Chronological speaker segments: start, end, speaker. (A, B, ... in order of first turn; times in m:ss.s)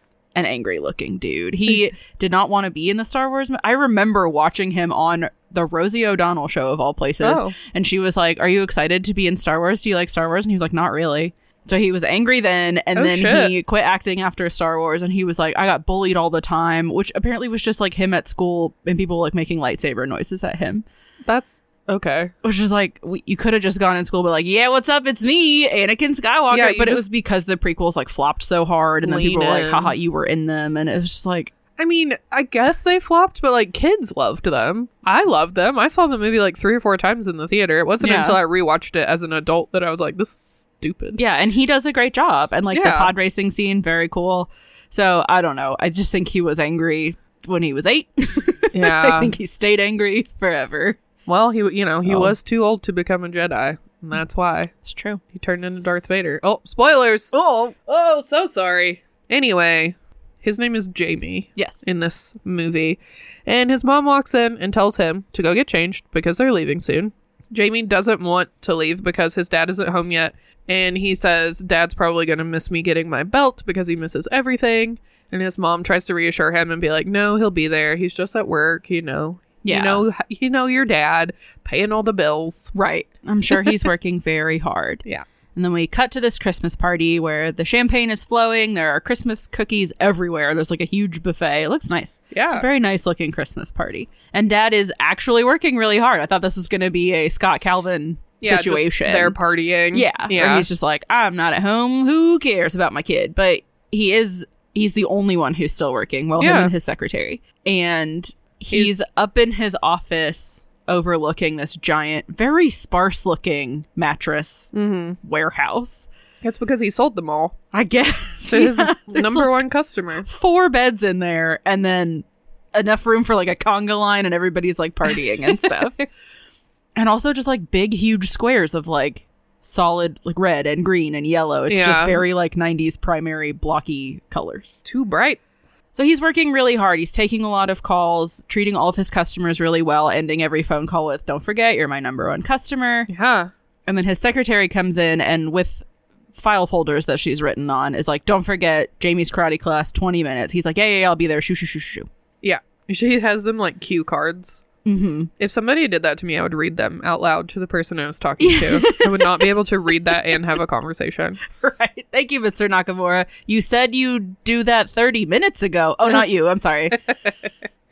0:00.3-0:20.8 A
0:07.2-0:07.5 B
0:13.0-0:13.5 B
0:21.3-0:22.3 B
0:22.4-0:31.5 A
0:26.5-0:27.0 B
0:29.0-0:29.9 B
0:31.8-0:41.2 B
0:38.0-0:38.4 A
0:41.2-0:51.0 A
0:42.7-0:43.1 B
0:48.7-0:49.3 B
0:51.3-0:54.7 B
0:52.0-0:52.3 A
0:54.8-0:55.2 A
0:55.3-0:57.3 B
0:57.3-0:57.8 A
0:57.8-1:22.7 B
1:01.6-1:01.8 A
1:19.6-1:20.0 A
1:22.7-1:39.4 A
1:32.3-1:32.6 B
1:38.4-1:40.7 B
1:39.9-1:56.1 A
1:46.4-1:46.7 B
1:54.7-1:55.2 B
1:56.4-1:57.5 B
1:57.7-1:59.6 A
1:58.5-2:00.2 B
2:00.2-2:06.0 A
2:07.0-2:14.8 A
2:11.7-2:12.2 B
2:14.8-2:15.4 B
2:15.9-2:23.1 A
2:23.1-2:23.5 B
2:23.9-2:32.1 A
2:32.4-2:34.6 B
2:34.8-2:35.3 A
2:35.4-2:41.4 B
2:38.4-2:39.5 A
2:41.5-2:47.0 A